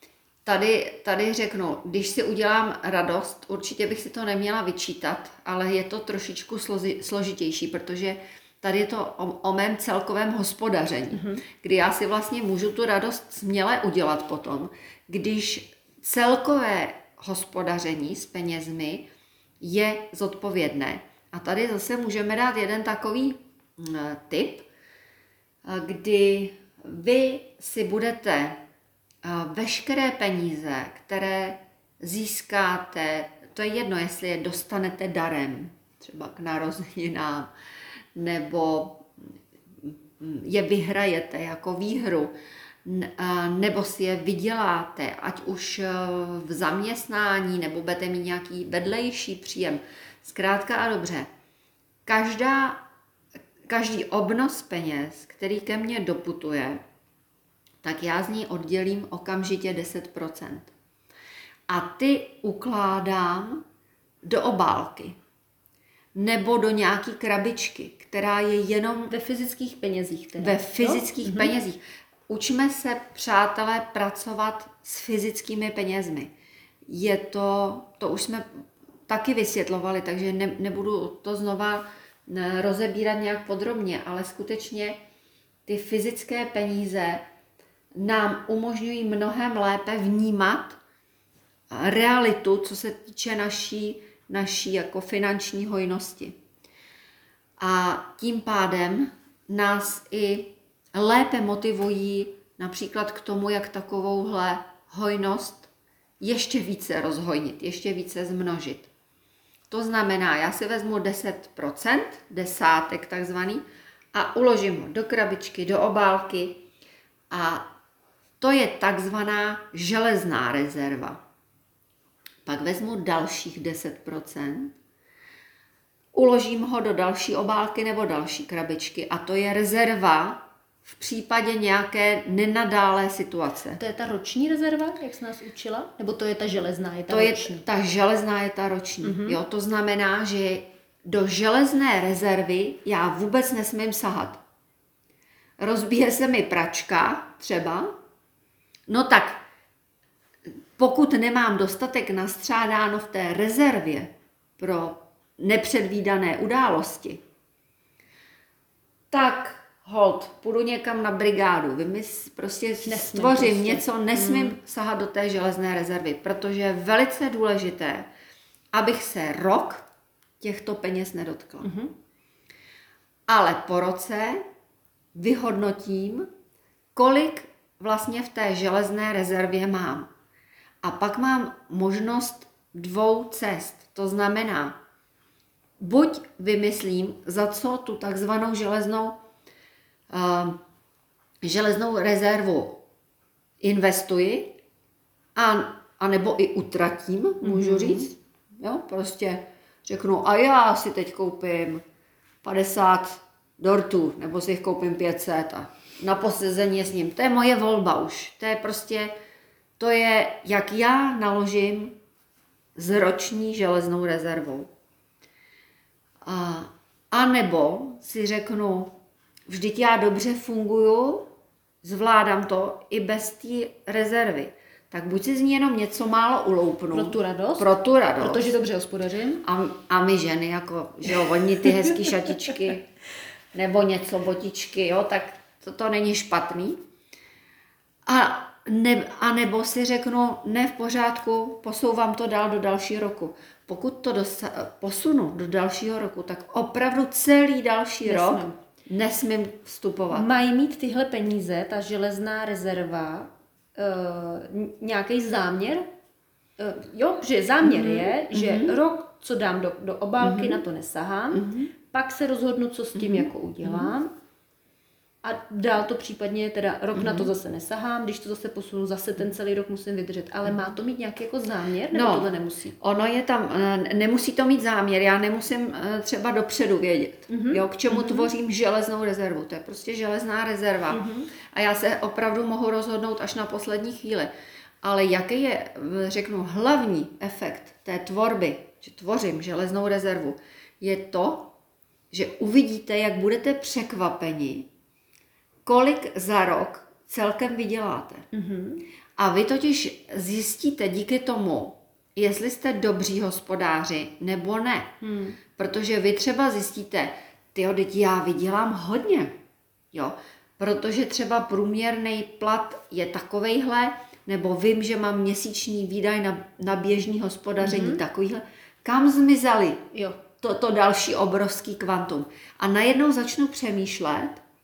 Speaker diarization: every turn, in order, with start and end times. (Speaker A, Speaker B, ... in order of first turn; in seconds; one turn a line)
Speaker A: 0.4-19.1
Speaker B: 11.1-11.4
Speaker A: 19.6-24.7
Speaker A: 25.6-28.6
Speaker A: 29.2-37.5
Speaker A: 38.1-39.1
Speaker A: 39.8-42.3
Speaker A: 42.8-51.3
Speaker A: 52.0-52.8
Speaker A: 53.6-56.8
Speaker A: 57.8-60.7
Speaker A: 61.7-63.6
Speaker A: 64.2-65.2
Speaker A: 66.1-69.1
Speaker B: 69.1-71.5
Speaker A: 70.4-76.3
Speaker A: 76.9-78.5
Speaker A: 79.1-85.0
Speaker A: 85.7-87.2
Speaker A: 88.0-90.8
Speaker A: 91.7-96.3
Speaker A: 97.6-108.9
Speaker A: 109.7-116.6
Speaker A: 117.3-117.7
Speaker A: 118.4-121.2
Speaker A: 122.5-124.7
Speaker A: 126.1-133.8
Speaker B: 133.8-137.6
Speaker A: 137.1-144.4
Speaker B: 139.0-139.4
Speaker A: 145.6-147.9
Speaker A: 148.9-149.4
Speaker A: 150.5-157.2
Speaker A: 159.1-168.1
Speaker B: 162.8-164.6
Speaker A: 168.7-169.9
Speaker A: 170.4-171.7
Speaker B: 171.6-171.9
Speaker A: 173.3-174.4
Speaker A: 175.1-176.3
Speaker A: 176.9-180.1
Speaker A: 180.8-184.8
Speaker A: 185.8-189.2
Speaker A: 190.1-190.6
Speaker A: 191.4-192.8
Speaker A: 193.6-194.6
Speaker A: 195.3-201.8
Speaker B: 197.4-198.1
Speaker A: 202.4-209.1
Speaker A: 209.8-212.0
Speaker A: 212.8-214.7
Speaker A: 216.2-221.3
Speaker A: 221.8-228.5
Speaker B: 226.9-229.4
Speaker A: 229.4-232.9
Speaker A: 233.5-236.8
Speaker A: 238.1-250.3
Speaker B: 248.0-248.6
Speaker B: 250.1-255.8
Speaker B: 256.6-264.1
Speaker A: 257.6-258.8
Speaker A: 260.2-260.6
Speaker A: 261.3-261.7
Speaker A: 262.9-263.9
Speaker B: 265.2-272.7
Speaker A: 266.9-267.3
Speaker A: 271.9-284.3
Speaker B: 277.3-278.3
Speaker B: 280.9-281.3
Speaker A: 284.8-291.6
Speaker A: 292.1-294.7
Speaker A: 295.6-298.2
Speaker B: 298.3-298.8
Speaker A: 299.2-304.9
Speaker B: 305.0-305.4
Speaker A: 305.6-309.3
Speaker A: 309.9-324.4
Speaker B: 317.6-318.0
Speaker B: 319.9-320.2